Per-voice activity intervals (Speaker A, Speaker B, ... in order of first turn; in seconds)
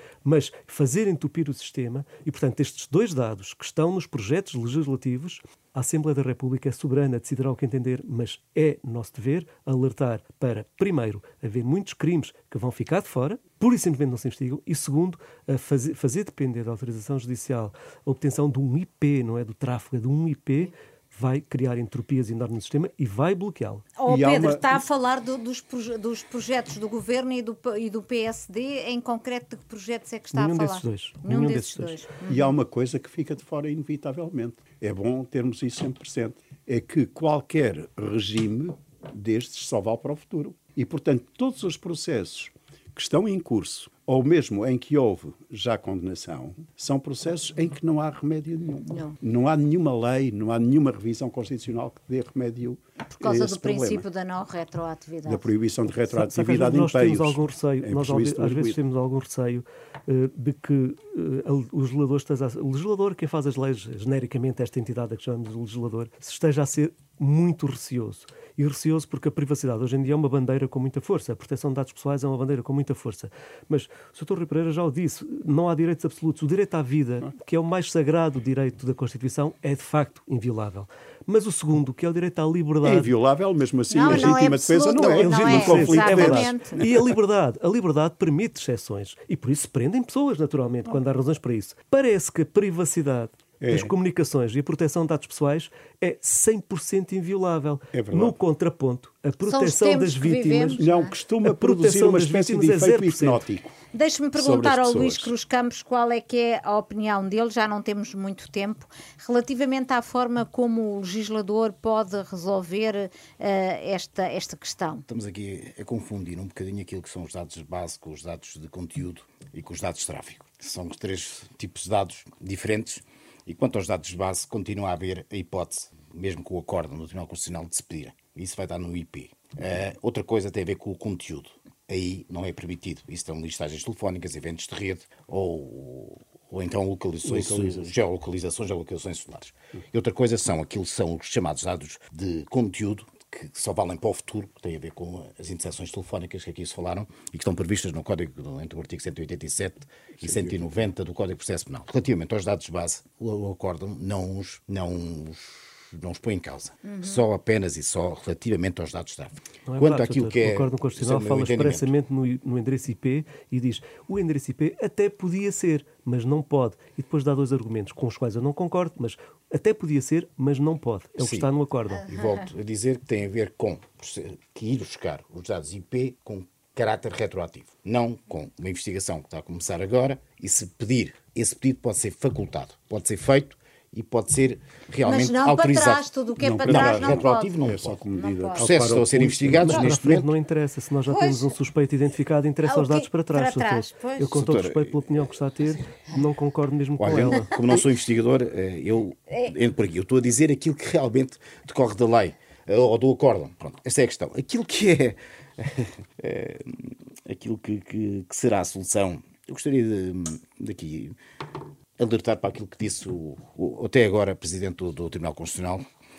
Speaker A: 0.2-23.9, 30.3-32.1, 56.1-83.1, 84.0-84.4, 85.0-100.8, 101.4-103.5, 159.7-172.1, 189.5-197.5
Speaker B: 24.0-32.5, 48.9-49.1, 53.0-55.5, 83.9-86.8, 99.4-101.1, 103.9-115.0, 156.8-157.2, 172.0-172.5, 185.1-187.6, 188.1-188.8, 191.1-191.5, 192.7-194.3
Speaker C: 24.1-24.8, 32.3-54.1, 55.3-58.8, 82.8-87.1, 93.6-93.9, 97.9-98.4, 100.8-103.8, 104.4-105.3, 137.2-137.9, 150.2-150.8, 186.4-189.8
Speaker D: 115.1-161.9, 171.2-171.5, 172.1-186.1, 186.7-188.0, 188.6-190.3, 194.3-195.4, 197.0-211.2, 212.0-215.8